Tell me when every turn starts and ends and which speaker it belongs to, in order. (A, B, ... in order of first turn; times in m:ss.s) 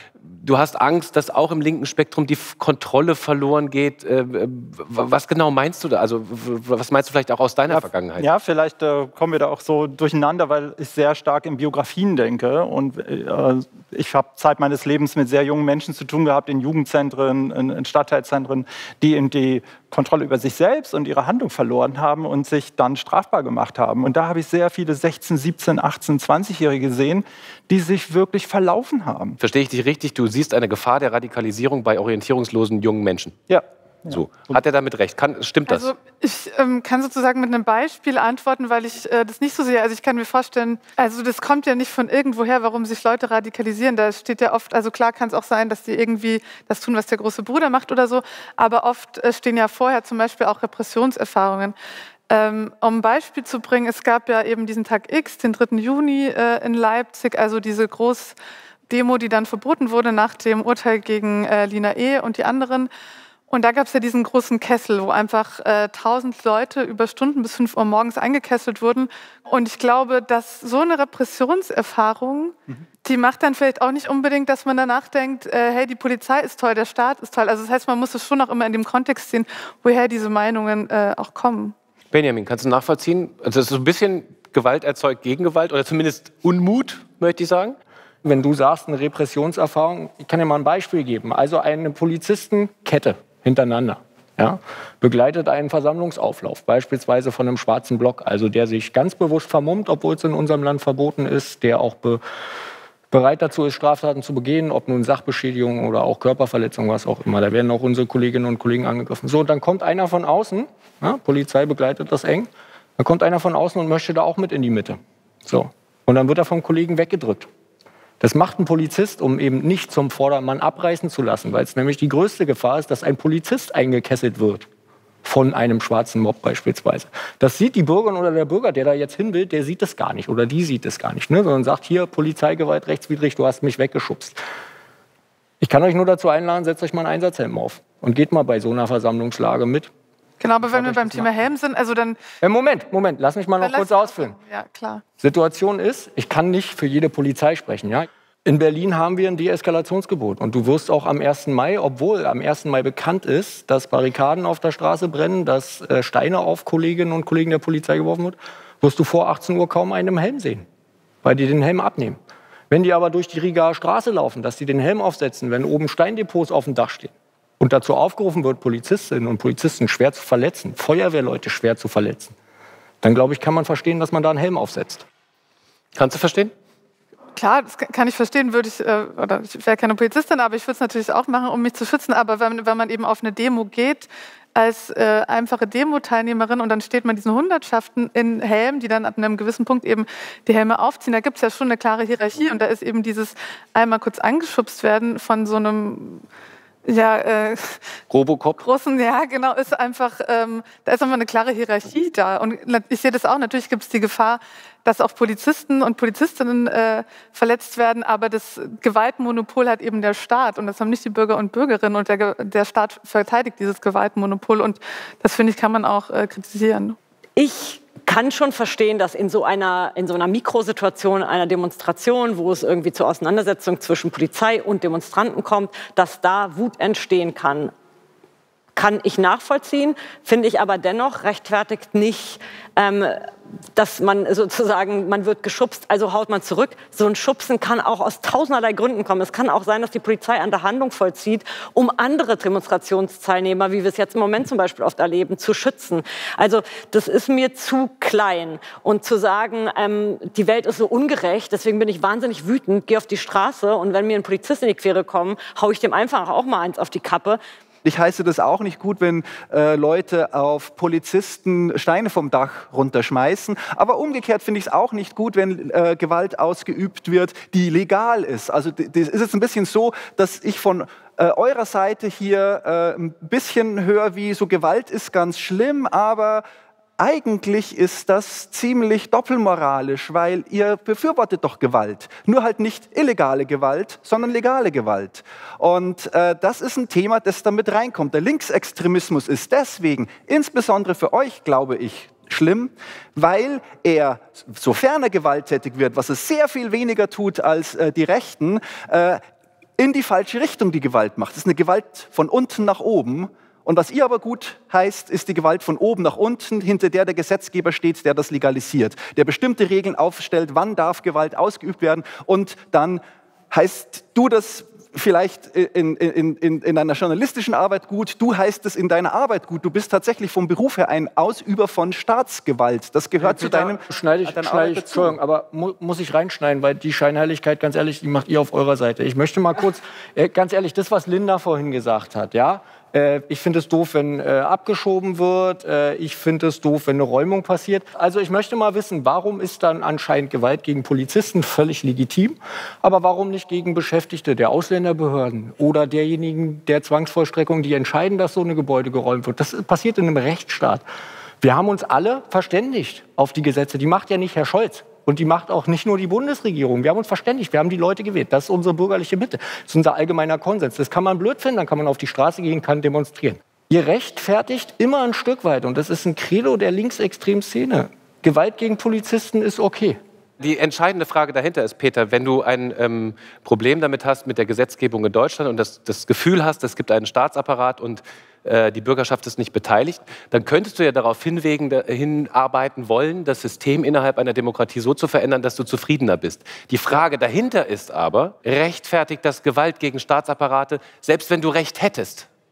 0:00.2-0:08.3 A
0:07.7-0:29.4 B
0:29.4-0:33.4 A
0:33.5-0:34.6 B
0:34.1-0:35.9 A
0:35.7-0:51.8 C
0:52.3-0:58.4 C
0:58.9-1:02.9 C
1:03.5-1:21.8 C
1:22.1-1:27.8 A
1:28.2-1:42.2 D
1:43.1-1:57.5 D
1:58.2-2:04.7 D
2:05.2-2:14.4 D
2:15.6-2:19.9 D
2:20.4-2:22.2 C
2:20.7-2:21.3 D
2:22.4-2:24.4 D
2:23.6-2:25.0 C
2:25.2-2:40.7 D
2:41.2-2:42.2 D
2:42.7-2:52.4 D
2:53.0-2:55.0 D
2:56.0-2:56.5 A
2:57.4-3:16.2 C
3:16.9-3:17.8 C
3:18.1-3:18.6 A
3:18.6-3:37.0 C
3:37.4-3:47.7 E
3:48.8-4:17.4 E
4:17.8-4:36.4 F
4:37.0-4:59.2 F
4:59.8-5:25.2 F
5:23.2-5:50.8 D
5:51.4-6:10.0 D
6:10.4-6:32.3 A